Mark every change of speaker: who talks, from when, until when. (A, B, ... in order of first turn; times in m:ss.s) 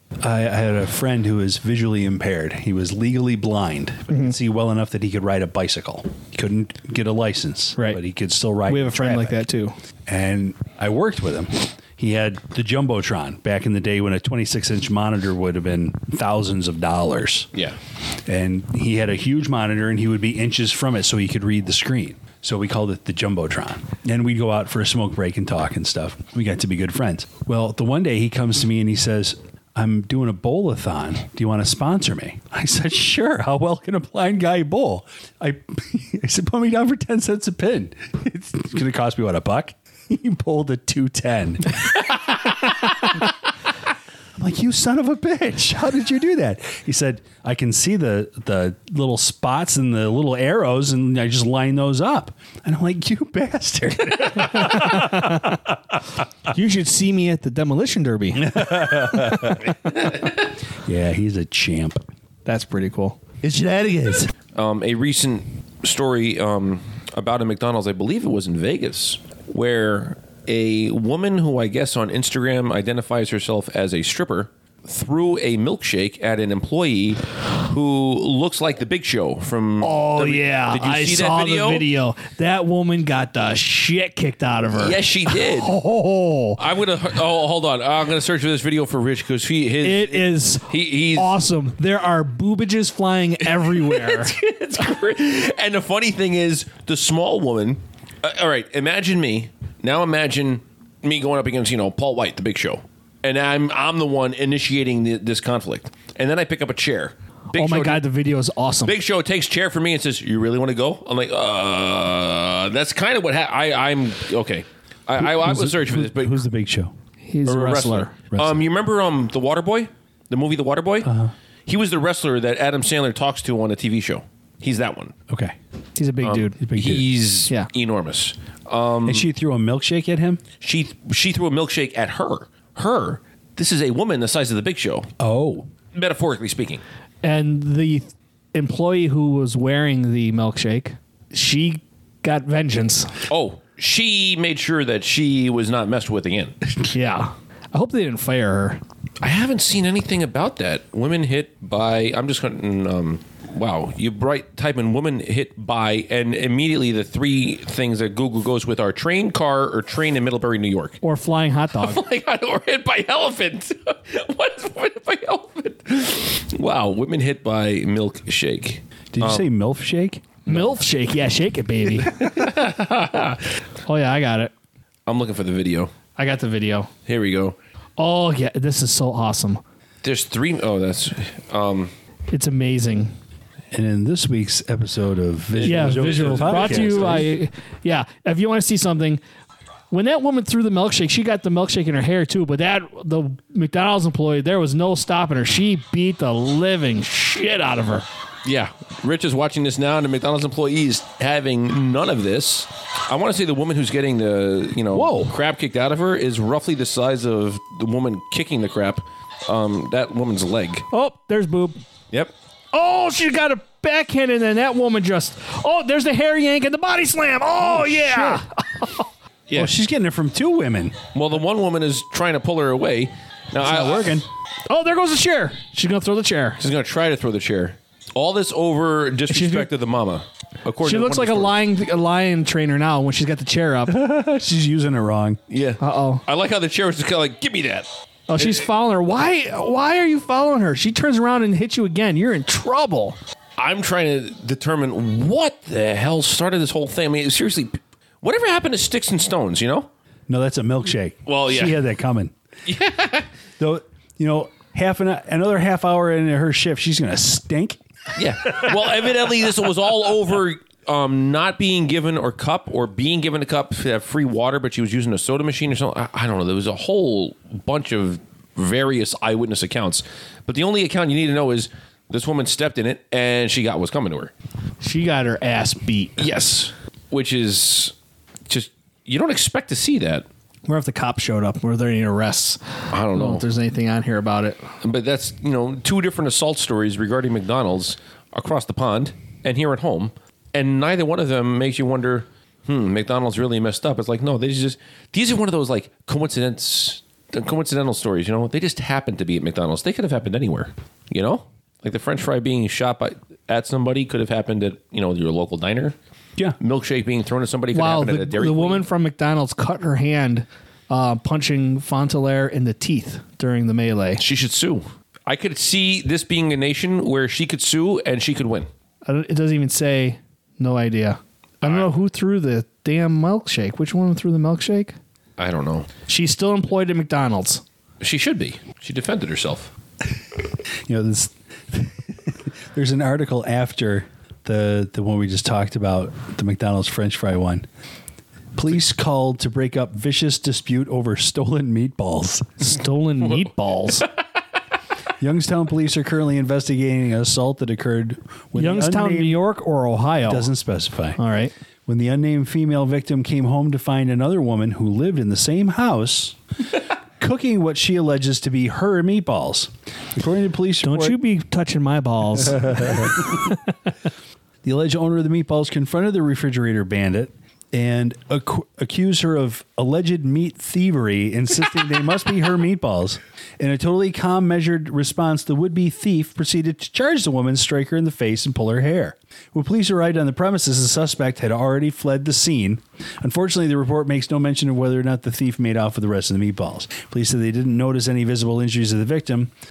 0:00.2-0:09.4 A
0:04.1-0:04.4 B
0:07.8-0:08.0 B
0:08.7-0:09.8 B
0:10.1-0:17.5 A
0:18.3-0:43.2 A
0:44.4-0:55.4 A
0:54.6-0:55.5 B
0:56.5-0:58.8 B
0:58.4-0:59.7 A
1:00.8-1:02.0 A
1:02.5-1:03.2 B
1:03.4-1:04.3 A
1:04.6-1:21.9 C
1:19.8-1:26.6 B
1:24.8-1:25.8 C
1:26.6-1:31.4 C
1:29.8-1:34.3 B
1:33.6-1:48.0 C
1:47.5-1:49.0 B
1:48.9-1:56.4 C
1:55.2-1:56.9 A
1:57.3-1:58.1 B
1:57.5-2:01.1 C
1:58.3-1:58.6 A
2:01.0-2:01.3 A
2:01.7-2:05.1 C
2:05.3-2:05.6 A
2:06.0-2:06.6 B
2:06.2-2:09.3 C
2:06.6-2:07.1 A
2:09.0-2:10.4 A
2:10.6-2:15.1 C
2:15.2-2:15.7 A
2:15.9-2:16.8 C
2:17.2-2:23.1 B
2:23.3-2:26.6 C
2:26.9-2:28.8 B
2:29.2-2:41.0 C
2:41.0-2:42.0 B
2:41.8-2:49.5 C
2:49.1-2:50.3 A
2:50.5-2:52.1 B
2:50.5-2:50.8 C
2:52.0-2:53.4 C
2:53.9-2:54.5 B
2:55.1-2:55.9 C
2:56.2-2:56.9 B
2:57.1-2:57.6 C
2:58.0-2:59.6 B
3:00.0-3:01.9 C
3:02.3-3:03.1 B
3:03.7-3:07.3 A
3:05.6-3:07.4 C
3:05.6-3:09.2 B
3:09.9-3:18.1 B
3:18.4-3:30.9 C
3:24.9-3:25.3 A
3:30.9-3:31.8 B
3:32.7-3:39.1 B
3:37.7-3:38.4 A
3:39.5-3:41.0 A
3:41.1-3:44.3 C
3:43.6-3:44.3 A
3:44.7-3:46.6 B
3:46.6-3:51.6 C
3:49.3-3:49.7 B
3:50.8-3:54.0 B
3:53.9-3:55.4 A
3:55.5-3:57.9 C
3:55.8-3:56.2 B
3:58.3-4:03.2 B
3:58.4-3:58.7 C
4:03.6-4:09.9 C
4:10.3-4:12.3 A
4:11.3-4:11.8 C
4:12.7-4:13.3 C
4:13.6-4:17.8 A
4:18.2-4:34.3 C
4:34.8-4:36.2 B
4:36.2-4:37.9 C
4:38.5-4:40.3 C
4:40.7-4:44.6 B
4:42.9-4:43.4 C
4:44.8-5:06.0 C
5:06.6-5:08.8 C
5:07.7-5:14.2 B
5:14.2-5:18.7 C
5:19.1-5:25.0 B
5:25.4-5:25.9 C
5:26.1-5:27.6 B
5:28.0-5:29.7 C
5:30.9-5:37.7 A
5:38.6-5:42.7 A
5:42.6-5:44.1 B
5:45.2-5:49.4 A
5:48.6-5:50.5 B
5:50.2-5:51.2 A
5:51.2-5:51.5 B
5:51.9-5:56.4 A
5:57.2-6:01.2 A
6:00.8-6:03.2 B
6:02.5-6:03.2 A
6:04.6-6:29.5 A